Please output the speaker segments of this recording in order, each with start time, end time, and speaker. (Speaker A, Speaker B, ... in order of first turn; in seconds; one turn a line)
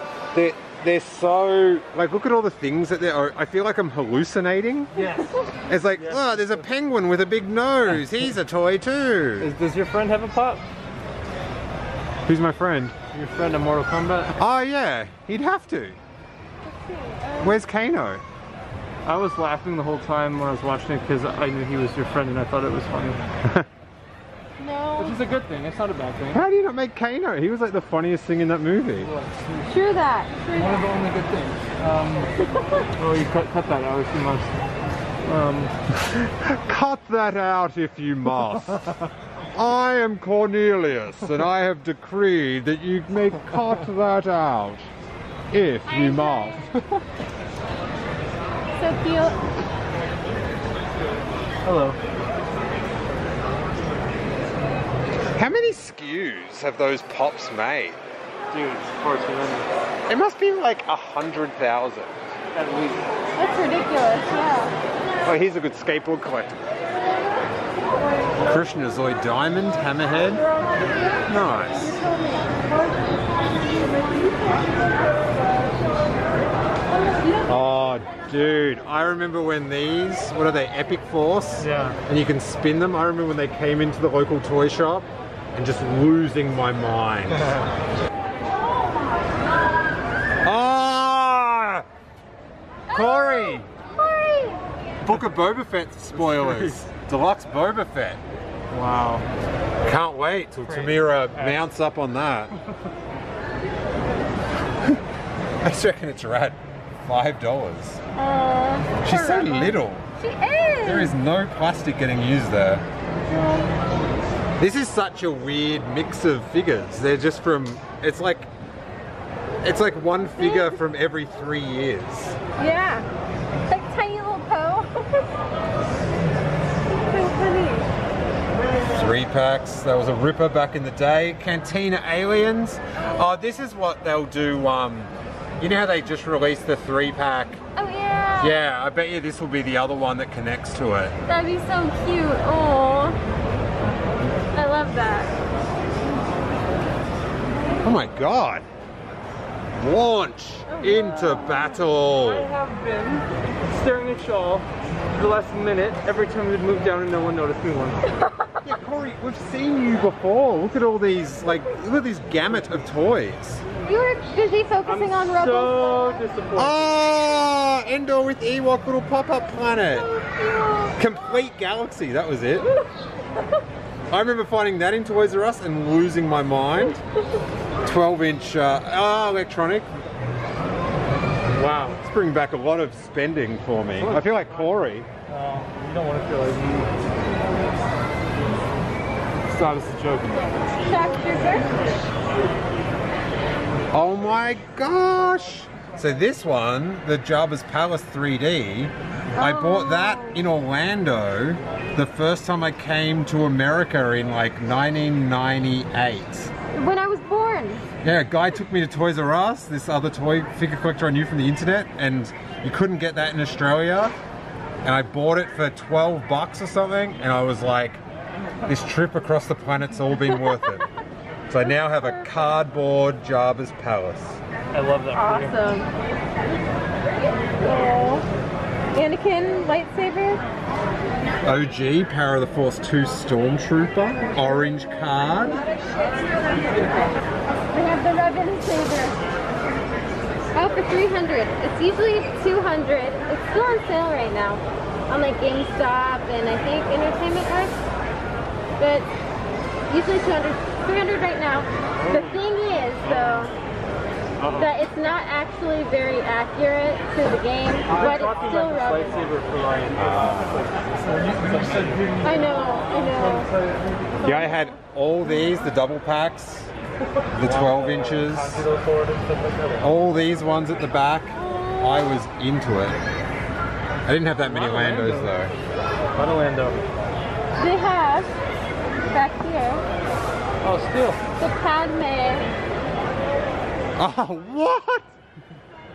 Speaker A: 0.3-4.9
Speaker B: 4.9-5.4
Speaker A: 5.7-9.5
Speaker B: 5.9-6.7
Speaker B: 7.9-8.3
Speaker B: 9.4-10.6
Speaker A: 12.2-12.9
Speaker B: 13.1-14.4
Speaker A: 14.4-16.0
Speaker C: 16.6-17.6
Speaker A: 17.4-18.2
Speaker B: 19.1-23.3
Speaker C: 24.6-25.2
Speaker B: 25.0-26.4
Speaker A: 26.3-29.1
Speaker B: 29.0-29.7
Speaker C: 29.6-30.9
Speaker B: 30.5-32.3
Speaker C: 32.4-32.9
Speaker B: 33.0-34.6
Speaker B: 35.2-35.7
Speaker A: 36.1-38.9
Speaker A: 39.5-44.9
Speaker A: 45.5-46.7
Speaker C: 45.9-46.8
Speaker C: 48.7-49.5
Speaker B: 51.6-52.0
Speaker A: 55.4-58.0
Speaker B: 58.5-59.7
Speaker A: 60.1-62.2
Speaker B: 62.5-63.1
Speaker C: 63.4-64.7
Speaker A: 65.2-66.7
Speaker A: 68.5-70.4
Speaker A: 71.3-72.0
Speaker C: 71.7-72.7
Speaker A: 77.5-87.5
Speaker B: 81.6-82.0
Speaker B: 87.4-87.7
Speaker A: 90.4-91.9
Speaker C: 92.9-94.6
Speaker A: 92.9-93.7
Speaker A: 95.0-98.2
Speaker B: 96.1-96.8
Speaker B: 98.7-99.3
Speaker A: 99.8-102.5
Speaker B: 100.6-101.7
Speaker A: 105.6-108.0
Speaker C: 108.1-111.1
Speaker A: 109.0-110.1
Speaker A: 110.8-112.8
Speaker C: 113.3-113.7
Speaker A: 114.6-118.5
Speaker A: 119.6-122.4
Speaker C: 120.4-120.8
Speaker C: 122.6-123.1
Speaker C: 123.7-125.3
Speaker C: 127.1-127.9
Speaker A: 128.9-137.6
Speaker C: 137.8-138.6
Speaker A: 138.4-141.1
Speaker C: 141.3-143.2
Speaker C: 144.6-145.3
Speaker A: 147.8-148.7
Speaker A: 149.8-152.5
Speaker C: 150.7-151.4
Speaker B: 150.9-158.2
Speaker A: 158.6-163.6
Speaker C: 163.8-166.2
Speaker B: 164.9-167.1
Speaker A: 166.6-170.1
Speaker C: 169.8-170.9
Speaker A: 170.9-172.7
Speaker A: 174.1-177.0
Speaker A: 177.8-179.9
Speaker B: 181.5-182.0
Speaker A: 182.0-185.1
Speaker B: 183.9-184.7
Speaker B: 185.3-187.0
Speaker B: 189.5-190.7
Speaker C: 190.8-191.7
Speaker A: 193.9-206.5
Speaker C: 199.3-200.4
Speaker C: 206.7-207.8
Speaker A: 208.0-214.1
Speaker A: 214.8-218.0
Speaker A: 218.7-220.8
Speaker A: 221.5-224.4
Speaker C: 221.6-222.4
Speaker B: 224.7-225.6
Speaker C: 225.1-225.9
Speaker C: 227.6-228.3
Speaker C: 228.9-230.4
Speaker A: 231.4-235.6
Speaker C: 235.8-239.2
Speaker C: 240.6-247.8
Speaker C: 248.8-249.1
Speaker C: 249.9-253.6
Speaker B: 251.9-252.5
Speaker B: 253.0-253.6
Speaker B: 254.4-254.8
Speaker C: 254.6-259.3
Speaker B: 257.9-264.2
Speaker A: 259.9-260.6
Speaker C: 262.2-263.5
Speaker C: 264.2-264.8
Speaker A: 264.2-266.7
Speaker A: 267.4-268.7
Speaker B: 267.4-269.9
Speaker A: 269.8-273.0
Speaker C: 271.4-272.2
Speaker A: 274.1-275.5
Speaker B: 274.4-275.4
Speaker B: 276.1-276.8
Speaker C: 277.6-278.3
Speaker C: 279.1-279.8
Speaker B: 280.6-281.2
Speaker C: 281.4-282.5
Speaker A: 284.0-285.1